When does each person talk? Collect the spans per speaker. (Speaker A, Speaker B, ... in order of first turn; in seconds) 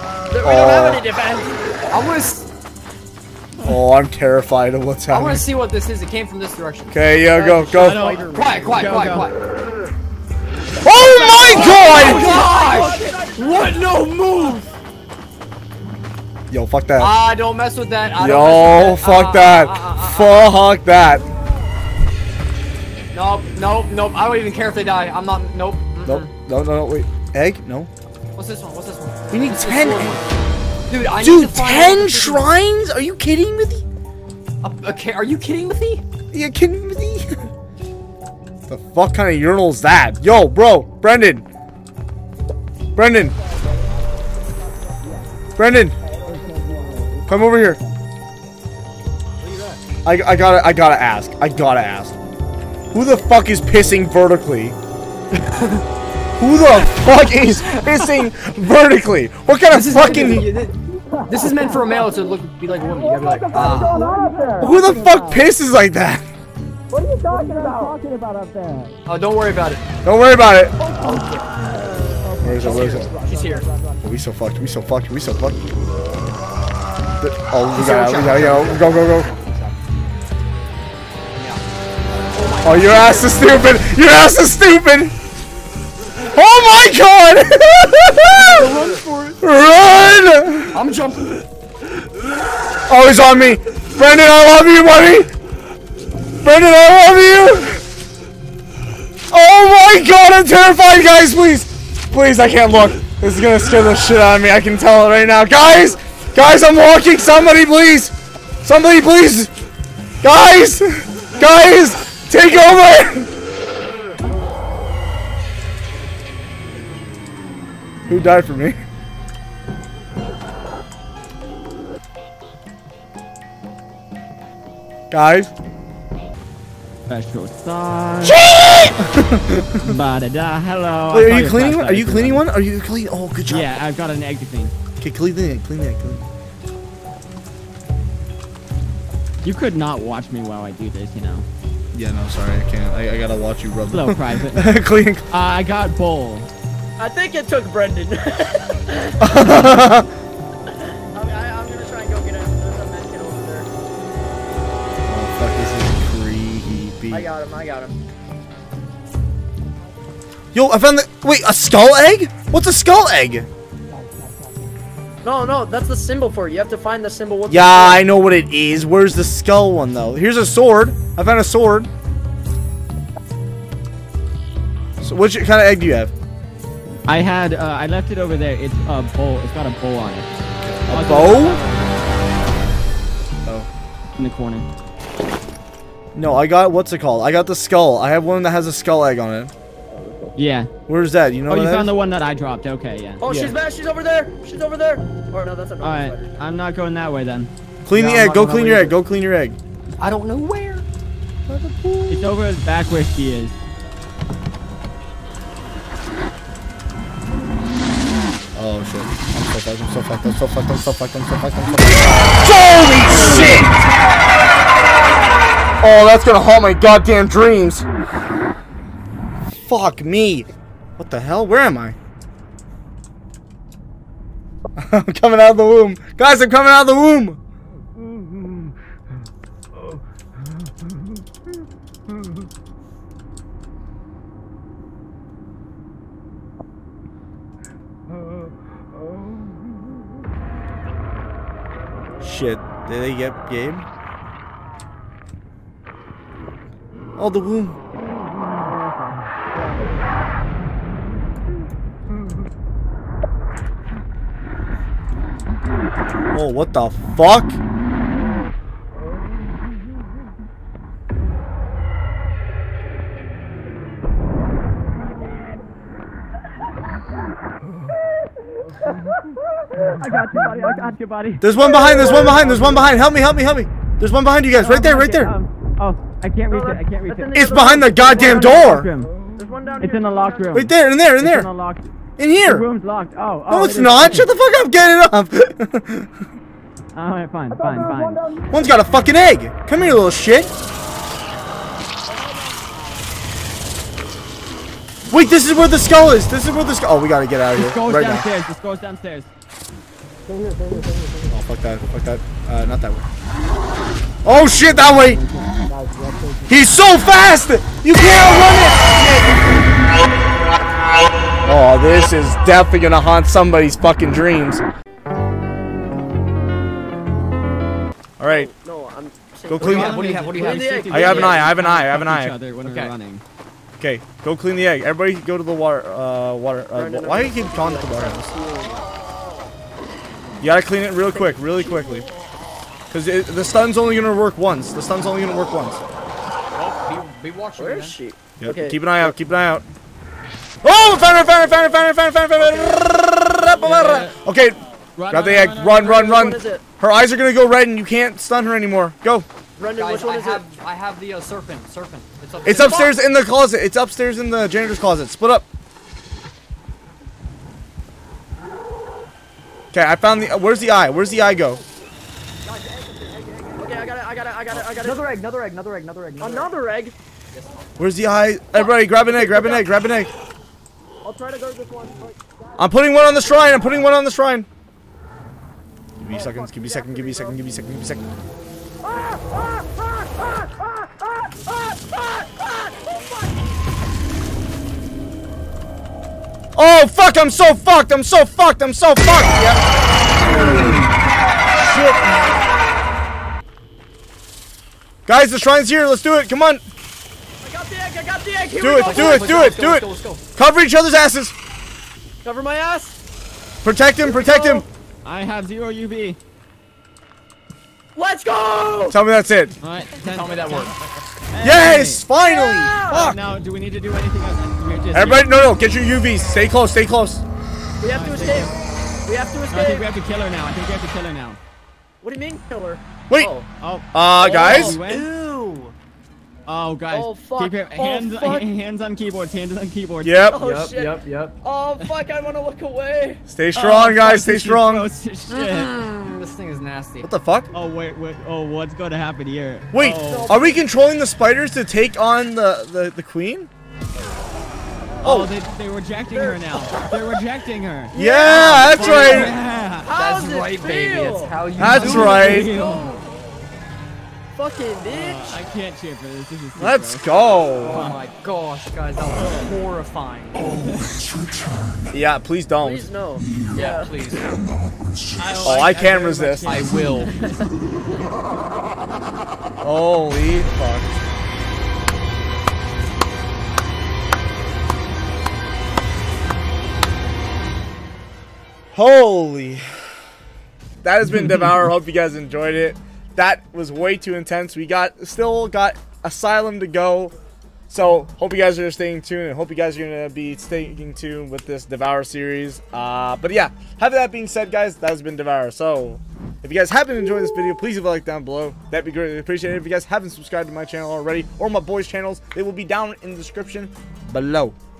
Speaker A: 0.3-1.6, 11.9-13.7, 63.5-64.8, 66.9-67.9, 70.8-74.0, 82.3-83.4, 147.0-149.4, 151.1-153.7, 157.1-158.0, 165.2-168.0, 189.9-190.4, 193.2-196.4, 271.6-272.9, 276.5-280.6, 287.5-288.8, 318.3-321.3, 326.7-328.9, 331.1-332.0, 337.6-339.1, 345.8-346.6, 349.6-350.5, 352.5-353.0, 360.9-361.1, 362.5-365.0, 366.2-366.9, 368.5-369.7, 371.0-372.5, 373.3-373.6, 376.1-377.4, 378.9-380.6, 381.7-383.4, 397.4-399.5, 402.2-403.0, 404.0-404.7, 407.9-409.0, 412.2-413.1, 417.8-419.9, 422.0-423.5, 424.2-424.8, 426.9-428.4, 430.2-433.2, 440.0-440.6, 446.1-446.4, 447.9-453.0, 454.3-455.4, 462.6-463.9
Speaker B: 0.4-1.0, 3.6-5.5, 6.9-8.0, 10.8-12.3, 16.5-17.1, 18.1-21.2, 26.0-27.9, 29.3-30.2, 31.1-33.8, 36.3-37.5, 38.7-41.5, 43.0-43.3, 45.5-46.0, 47.2-47.8, 50.0-52.1, 52.9-54.8, 56.4-60.5, 64.6-66.3, 70.0-70.8, 72.4-73.1, 74.0-75.6, 77.2-79.3, 82.6-85.1, 86.2-88.7, 89.4-90.8, 92.9-95.3, 96.4-97.8, 99.3-109.5, 110.2-113.3, 118.1-118.8, 125.1-125.5, 128.2-129.9, 131.1-133.7, 135.0-136.3, 141.9-145.2, 149.2-150.1, 155.1-157.3, 160.5-163.5, 167.5-171.9, 175.0-176.1, 180.6-181.6, 186.1-189.5, 190.9-191.9, 193.3-193.6, 197.8-199.6, 201.5-202.2, 208.5-213.8, 215.8-217.8, 219.6-221.9, 224.8-227.4, 242.2-243.9, 247.2-247.8, 256.3-257.6, 271.4-275.3, 277.3-278.9, 280.5-281.5, 282.2-282.6, 283.5-286.1, 288.5-290.5, 295.1-298.3, 301.3-303.0, 304.2-305.2, 306.5-309.4, 311.4-314.6, 318.2-318.5, 319.5-320.0, 320.9-322.4, 323.8-328.3, 330.4-332.1, 332.9-335.8, 338.4-339.6, 340.6-344.6, 345.1-349.2, 352.4-355.5, 359.7-361.6, 367.8-370.1, 372.6-374.5, 376.0-378.0, 386.5-389.6, 391.6-392.2, 395.1-396.6, 398.6-401.3, 403.6-404.6, 408.9-409.6, 411.4-413.2, 414.9-417.2, 423.9-424.8, 430.0-430.4, 433.3-434.9, 437.0-437.5, 439.7-443.5, 445.0-445.3, 447.9-449.3, 451.6-452.5, 456.6-457.8, 461.9-462.9, 465.4-466.5, 469.6-470.9, 478.7-479.6, 480.8-487.1, 487.7-504.5
Speaker C: 1.9-2.5, 5.1-9.4, 11.2-14.7, 17.0-20.5, 23.1-26.3, 28.3-30.2, 30.9-32.5, 34.6-36.0, 49.4-49.8, 55.4-55.8, 59.7-60.7, 61.3-64.0, 69.0-69.8, 72.7-73.6, 77.7-79.8, 81.3-81.6, 88.3-89.4, 90.7-91.4, 198.0-198.7, 200.0-200.8, 319.6-321.4, 322.6-322.9, 336.5-337.9, 349.7-352.9, 364.5-366.5, 367.3-367.7, 398.8-400.2, 410.0-410.8, 424.8-425.7, 430.4-431.4, 435.3-437.1, 448.3-452.9, 457.6-460.6, 463.5-464.4, 466.4-467.2
Speaker D: 7.8-9.3, 10.8-13.3, 61.4-61.7, 63.5-65.5, 67.3-69.0, 127.1-128.4, 129.8-132.4, 133.5-134.7, 139.4-141.5, 143.9-146.5, 177.1-180.3, 180.9-181.9, 184.2-184.7, 190.3-190.7, 191.5-193.2, 195.8-198.9, 202.1-203.6, 269.9-271.4, 274.5-279.1, 279.8-281.9, 282.4-284.3, 286.9-288.2, 297.5-299.3, 304.9-305.4, 319.6-323.2, 343.5-344.2, 344.9-346.0, 405.0-406.2, 409.6-410.7, 411.3-412.0, 412.9-415.3, 417.9-418.5, 419.5-421.4, 423.6-425.1, 426.4-430.2, 433.5-435.7, 437.5-440.3, 445.0-447.9, 448.8-449.9, 451.7-452.9, 454.9-458.0, 465.1-467.5